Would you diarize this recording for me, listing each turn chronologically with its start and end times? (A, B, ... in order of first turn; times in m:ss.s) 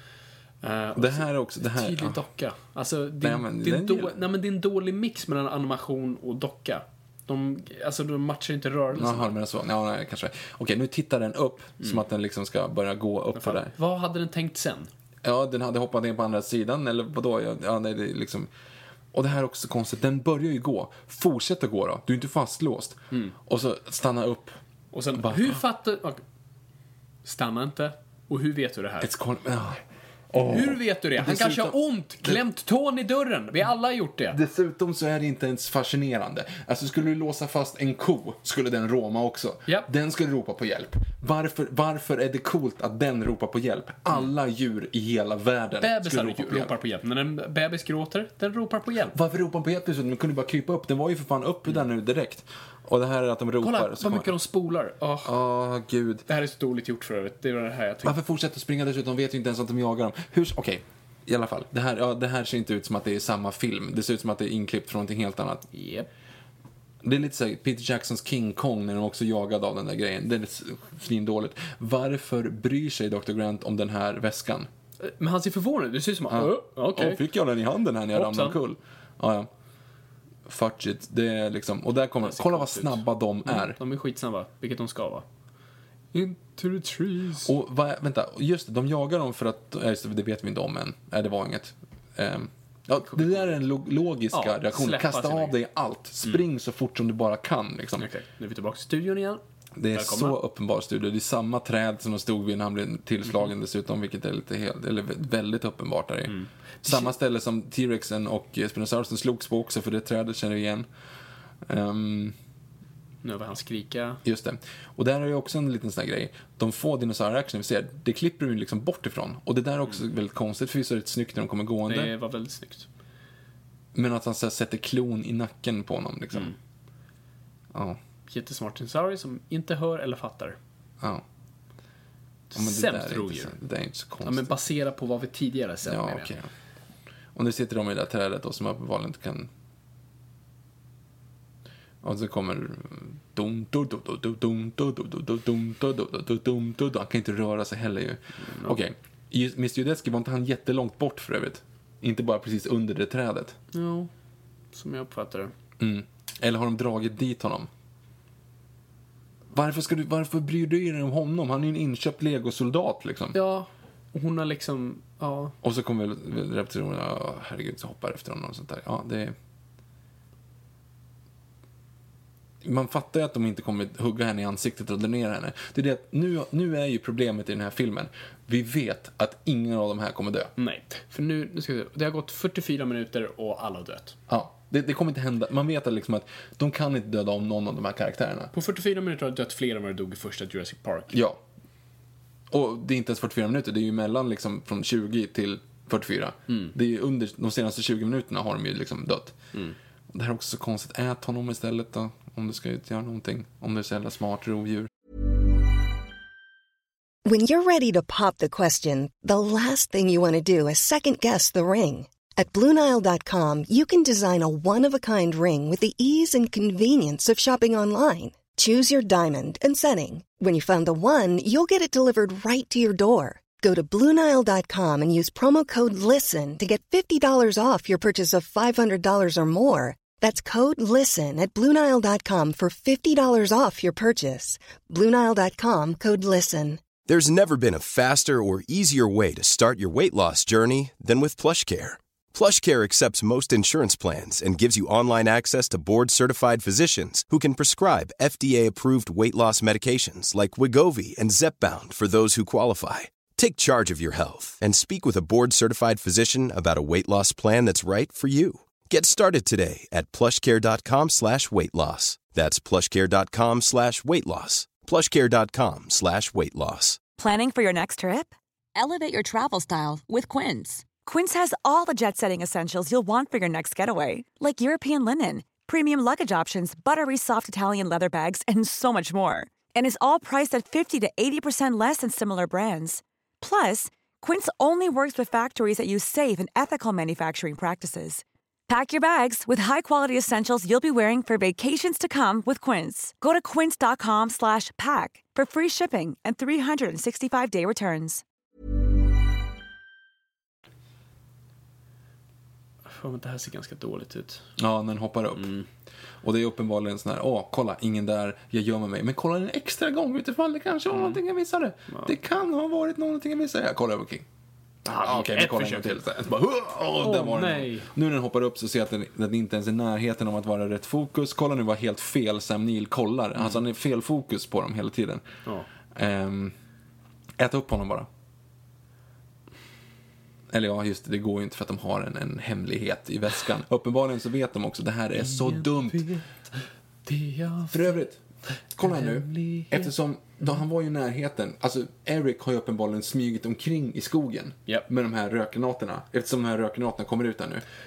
0:00.6-0:09.3 A
0:00.9-0:02.2 B
0:03.2-0:04.2 B
0:08.9-0:13.7 B
0:13.3-0:14.9 A
0:15.2-0:18.5 B
0:19.1-0:24.5 B
0:24.9-0:26.2 A
0:25.2-0:25.6 B
0:27.2-0:29.1 A
0:29.0-0:32.4 B
0:30.3-0:34.4 A
0:34.3-0:46.7 B
0:45.8-0:49.2 A
0:49.1-0:54.3 B
0:53.6-0:55.4 A
0:55.2-0:56.2 B
0:56.3-0:58.2 A
0:58.0-1:05.6 B
1:05.7-1:06.1 A
1:07.0-1:14.7 B
1:15.0-1:17.2 A
1:16.3-1:19.5 B
1:18.1-1:18.6 A
1:20.4-1:23.8 B
1:22.2-1:25.2 A
1:26.1-1:27.5 A
1:27.4-1:38.1 B
1:33.1-1:33.5 A
1:34.3-1:35.6 A
1:38.0-1:39.4 A
1:39.8-1:50.9 B
1:39.9-1:40.4 A
1:46.3-1:47.1 A
1:51.6-1:52.4 B
1:53.2-1:54.2 A
1:54.2-2:02.1 B
2:01.9-2:02.9 A
2:03.9-2:06.5 B
2:07.7-2:08.0 B
2:08.3-2:10.6 A
2:12.5-2:13.6 A
2:12.5-2:14.5 B
2:14.2-2:16.3 A
2:15.8-2:16.5 B
2:17.3-2:19.5 B
2:22.0-2:33.6 B
2:28.4-2:28.8 A
2:33.7-2:34.1 A
2:34.7-2:35.5 A
2:35.8-2:37.7 B
2:39.5-2:43.4 B
2:43.3-2:45.5 A
2:45.6-2:49.4 B
2:52.6-3:00.5 B
3:00.6-3:04.2 A
3:04.3-3:08.5 B
3:08.5-3:11.2 A
3:11.1-3:11.4 B
3:12.5-3:19.4 B
3:20.1-3:24.9 B
3:27.2-3:56.8 C
3:57.1-4:27.0 D
4:27.2-4:58.2 E
5:02.9-5:04.4 A
5:04.6-5:05.5 B
5:05.4-5:05.6 A
5:06.2-5:14.2 B
5:10.9-5:11.2 A
5:14.8-5:16.0 A
5:14.9-5:25.2 B
5:17.0-5:17.9 A
5:25.9-5:26.5 B
5:27.4-5:28.1 B
5:30.5-5:36.1 B
5:35.2-5:38.0 A
5:37.7-5:38.2 B
5:38.7-5:47.6 B
5:38.8-5:39.9 A